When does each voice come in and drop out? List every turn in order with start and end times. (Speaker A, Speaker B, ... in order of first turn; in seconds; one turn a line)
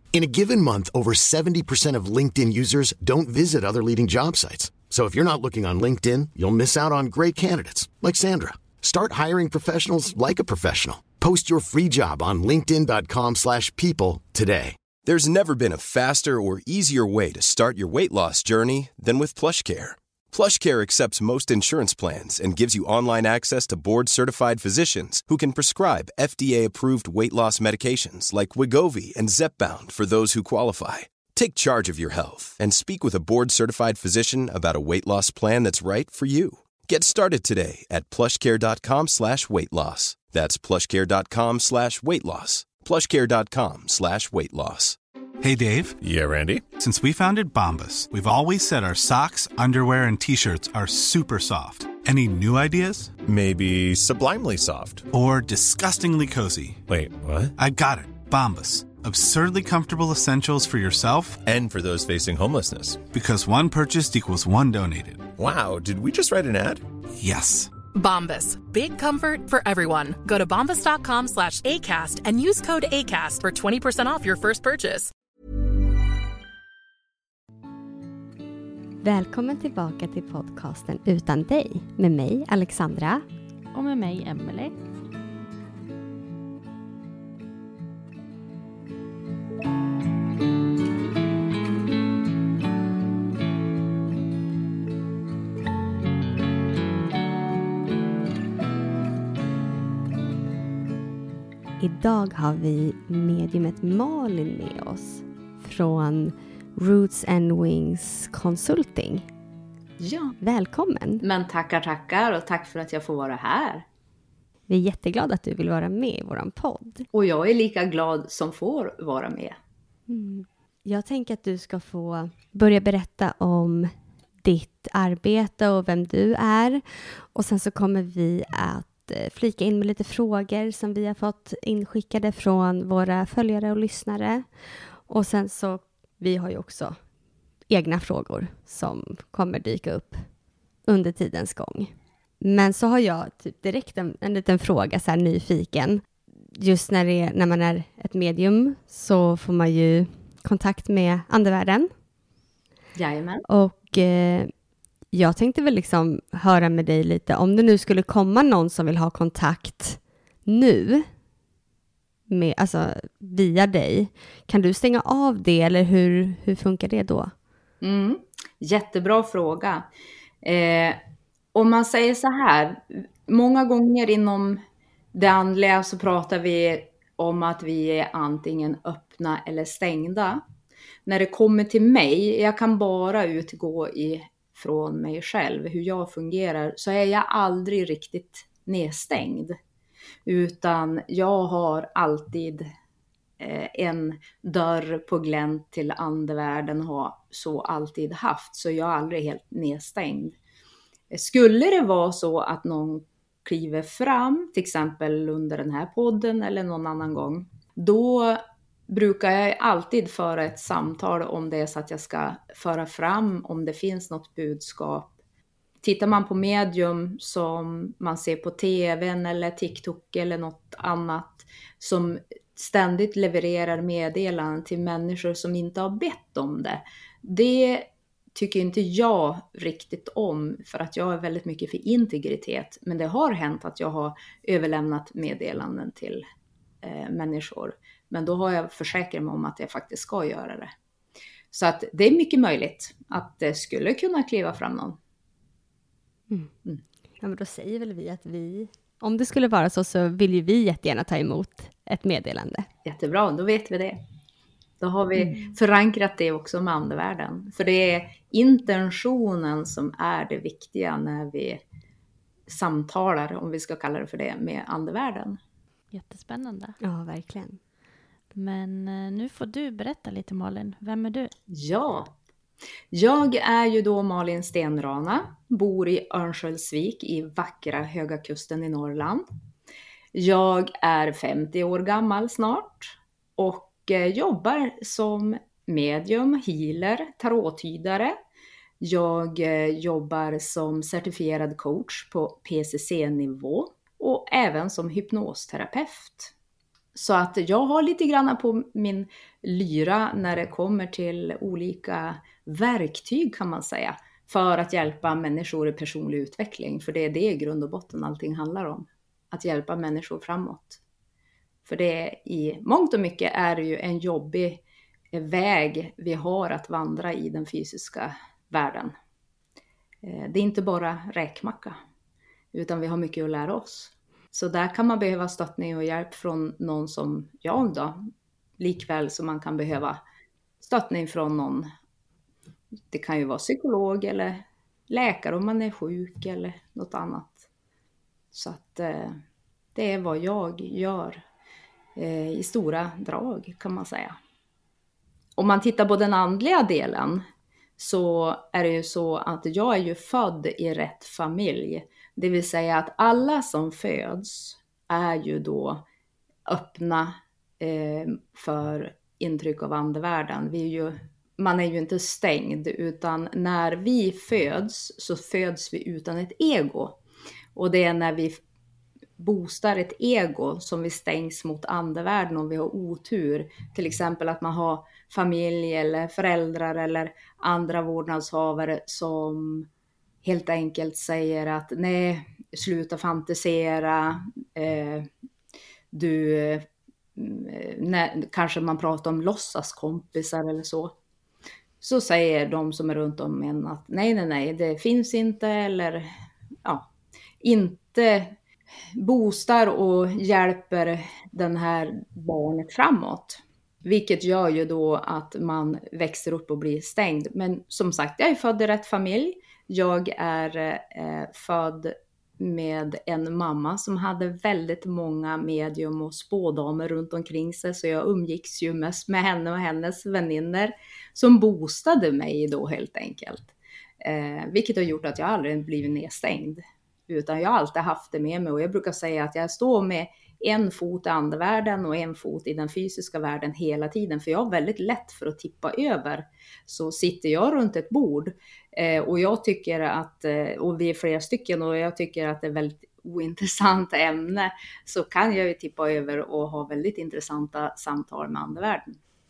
Speaker A: 0.1-14.8
Speaker B: 15.0-45.0
Speaker C: 45.4-46.0
Speaker D: 46.0-46.6
Speaker C: 46.8-53.1
Speaker D: 53.2-55.1
Speaker C: 55.1-56.8
Speaker D: 56.9-57.5
Speaker C: 57.6-61.4
Speaker D: 61.4-63.0
Speaker C: 63.1-65.3
Speaker D: 65.4-66.8
Speaker C: 67.2-67.7
Speaker E: 67.9-75.1
Speaker F: 79.0-83.2
Speaker G: 83.7-84.7
Speaker F: 101.8-109.3
Speaker H: 110.0-110.4
Speaker F: 110.4-111.2
Speaker H: 111.2-113.8
Speaker F: 114.7-117.1
Speaker H: 117.1-119.6
Speaker F: 120.1-137.1
Speaker F: 137.7-151.9
Speaker H: 152.9-153.4
Speaker F: 153.4-161.1
Speaker F: 162.3-167.3
Speaker H: 167.8-169.9
Speaker H: 170.4-171.0
Speaker H: 171.5-174.6
Speaker H: 175.1-180.4
Speaker H: 181.1-189.6
Speaker H: 190.3-192.7
Speaker H: 193.4-200.3
Speaker H: 201.1-215.1
Speaker H: 215.8-236.2
Speaker H: 236.8-240.7
Speaker H: 241.5-245.0
Speaker F: 247.2-252.7
Speaker H: 252.8-254.0
Speaker H: 254.8-261.6
Speaker F: 255.2-255.6
Speaker H: 262.5-265.4
Speaker G: 265.9-266.8
Speaker F: 266.8-267.6
Speaker G: 268.3-271.3
Speaker H: 271.5-272.1
Speaker H: 272.9-279.3
Speaker H: 280.1-288.2
Speaker H: 288.8-296.3
Speaker H: 296.9-310.8
Speaker H: 311.6-314.6
Speaker H: 315.1-318.9
Speaker H: 320.0-321.8
Speaker H: 322.5-328.0
Speaker H: 328.6-330.0
Speaker H: 330.6-331.7
Speaker H: 332.9-337.5
Speaker H: 338.3-339.2
Speaker H: 339.8-341.2
Speaker H: 342.0-344.2
Speaker H: 345.4-347.2
Speaker H: 347.8-355.8
Speaker H: 356.5-367.0
Speaker H: 367.6-368.4
Speaker H: 369.2-379.7
Speaker H: 380.2-385.1
Speaker H: 385.9-390.9
Speaker H: 391.8-396.1
Speaker H: 397.4-398.4
Speaker H: 398.9-449.0